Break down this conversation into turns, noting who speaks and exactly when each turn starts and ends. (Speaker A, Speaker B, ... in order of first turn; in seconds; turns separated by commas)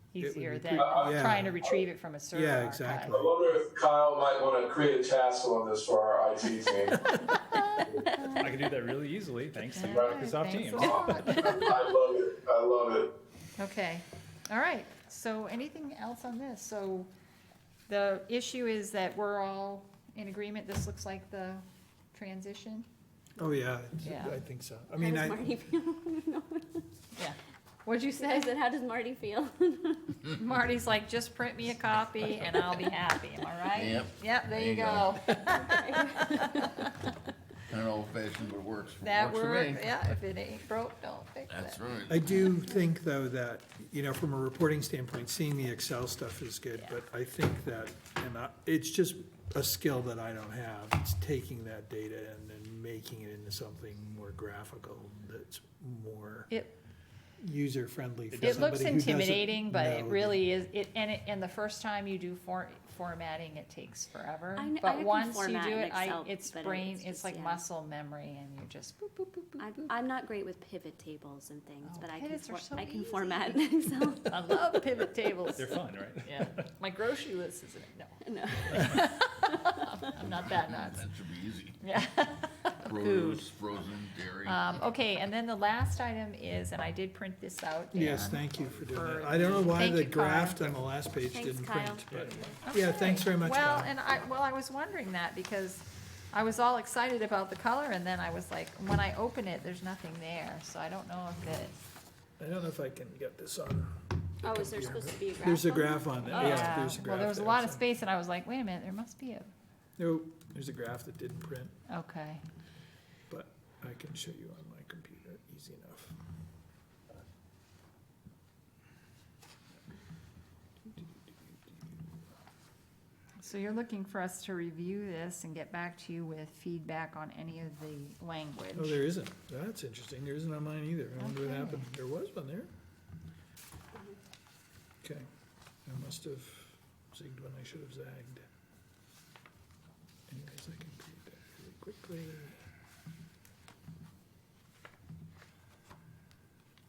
Speaker A: 0.1-3.2, Speaker B: 0.2-1.6, Speaker C: 0.8-1.8, Speaker B: 2.3-3.6, Speaker C: 3.1-8.0, Speaker A: 7.5-8.6, Speaker D: 8.3-11.0, Speaker A: 9.7-11.7, Speaker C: 9.8-10.2, Speaker C: 10.7-13.1, Speaker A: 13.6-17.1, Speaker A: 17.9-22.9, Speaker B: 23.4-25.5, Speaker A: 24.0-24.4, Speaker E: 25.0-26.8, Speaker A: 27.1-28.5, Speaker E: 28.2-30.2, Speaker A: 30.4-36.9, Speaker F: 33.7-35.2, Speaker E: 35.4-36.8, Speaker F: 37.7-40.0, Speaker A: 39.0-41.8, Speaker F: 41.5-42.4, Speaker B: 42.1-56.5, Speaker A: 56.5-56.8, Speaker B: 57.4-60.4, Speaker D: 58.3-58.7, Speaker A: 58.4-69.7, Speaker E: 64.5-67.6, Speaker E: 69.6-74.7, Speaker A: 71.8-81.1, Speaker D: 75.5-76.7, Speaker E: 78.2-79.7, Speaker F: 80.2-81.8, Speaker A: 81.8-83.5, Speaker F: 82.8-84.7, Speaker A: 84.4-90.7, Speaker B: 87.9-93.9, Speaker E: 91.3-92.1, Speaker D: 92.1-92.5, Speaker A: 92.7-101.8, Speaker B: 102.4-107.8, Speaker E: 104.4-106.8, Speaker A: 106.3-109.5, Speaker B: 110.0-111.7, Speaker A: 111.9-112.4, Speaker B: 113.3-116.2, Speaker A: 123.4-129.0, Speaker B: 128.7-132.7, Speaker A: 131.2-131.9, Speaker B: 135.8-138.4, Speaker B: 140.3-142.6